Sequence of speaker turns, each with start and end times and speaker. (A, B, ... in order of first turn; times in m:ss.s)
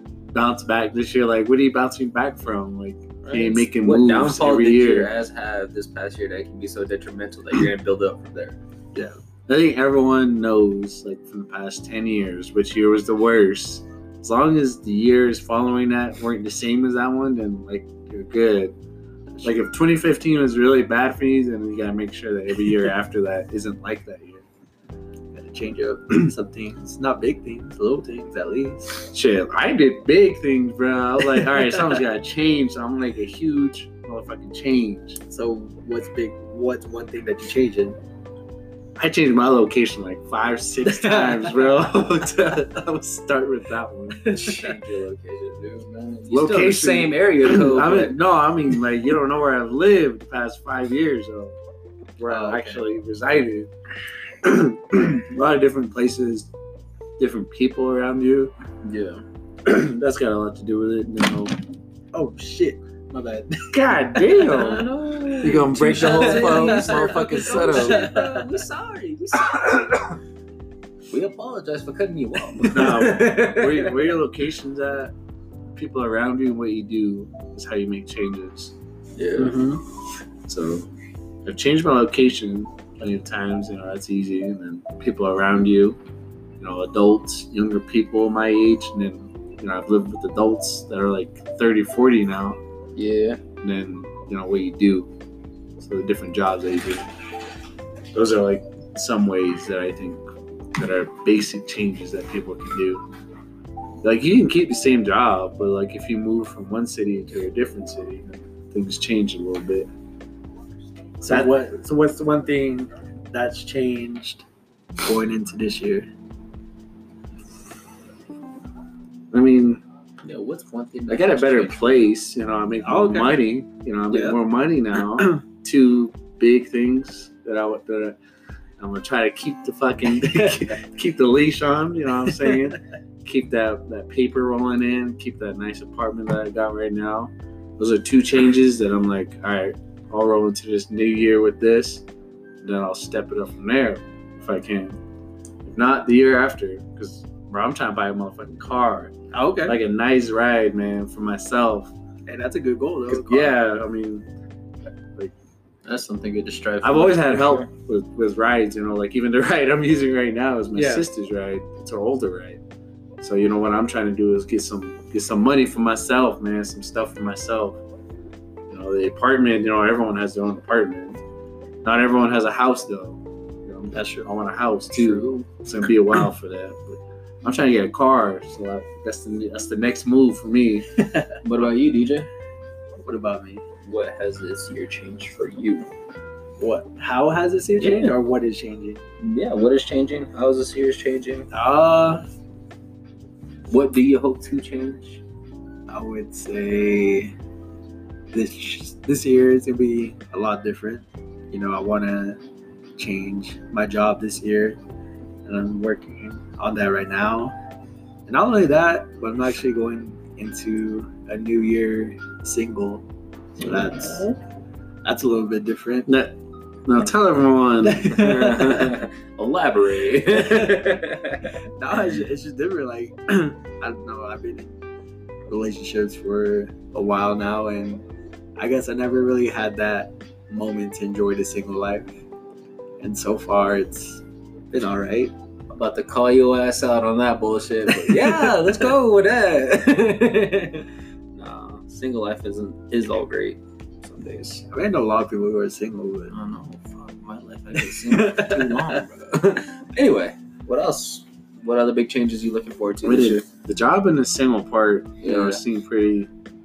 0:00.3-0:05.1 A
0:03.2-0:08.6 B
0:09.5-0:18.7 A
0:19.4-0:19.7 C
0:19.4-0:24.4 A
0:25.3-0:29.0 C
0:29.1-0:35.2 A
0:35.2-0:38.0 C
0:39.0-0:44.5 A
0:40.8-0:41.8 C
0:44.2-0:44.7 C
0:44.3-0:48.2 B
0:46.3-0:51.6 A
0:52.2-0:53.7 A
0:52.3-0:52.8 C
0:54.4-0:56.5 A
0:57.2-0:58.5 A
0:58.8-0:59.2 B
0:59.6-1:01.6 A
1:02.1-1:04.6 C
1:03.7-1:04.9 A
1:04.5-1:10.0 B
1:05.4-1:08.0 A
1:05.7-1:08.5 C
1:11.1-1:14.1 B
1:12.7-1:15.1 A
1:15.7-1:18.7 A
1:19.2-1:19.7 B
1:19.4-1:19.8 C
1:20.5-1:20.9 A
1:21.4-1:26.0 A
1:26.6-1:32.6 A
1:33.0-1:33.4 B
1:33.6-1:35.1 A
1:35.8-1:37.1 A
1:38.1-1:43.0 A
1:44.0-1:49.9 A
1:51.2-1:54.4 C
1:51.2-1:51.7 A
1:55.0-1:56.1 C
1:59.3-1:59.8 A
2:00.2-2:01.8 B
2:01.1-2:08.2 A
2:02.8-2:03.4 C
2:04.1-2:04.4 C
2:08.8-2:22.0 A
2:10.3-2:10.6 C
2:22.6-2:25.0 A
2:25.6-2:29.1 A
2:29.3-2:29.8 C
2:29.6-2:31.9 A
2:32.3-2:33.6 C
2:33.1-2:34.2 A
2:35.8-2:37.7 B
2:36.8-2:42.6 A
2:40.7-2:41.0 C
2:43.2-2:47.8 A
2:48.7-2:51.2 A
2:51.8-3:00.9 A
2:53.9-2:54.3 C
2:54.9-2:55.5 B
3:01.0-3:01.4 C
3:01.4-3:02.3 B
3:03.0-3:03.6 C
3:03.8-3:05.9 B
3:06.6-3:09.0 C
3:07.8-3:08.2 B
3:09.2-3:11.5 B
3:11.5-3:12.2 C
3:13.7-3:15.2 B
3:15.9-3:17.3 C
3:18.3-3:22.4 C
3:23.0-3:24.8 C
3:25.4-3:27.5 C
3:28.2-3:33.0 C
3:33.6-3:34.3 C
3:33.7-3:34.4 B
3:35.0-3:36.1 C
3:36.1-3:38.7 A
3:37.8-3:38.7 C
3:38.1-3:41.5 B
3:40.3-3:44.8 C
3:45.5-3:48.0 C
3:48.6-3:52.2 C
3:53.0-3:55.3 C
3:55.7-4:04.6 B
3:58.1-3:58.5 C
4:04.7-4:06.3 C
4:06.3-4:13.4 B
4:07.7-4:09.0 C
4:13.0-4:16.3 A
4:15.2-4:15.6 B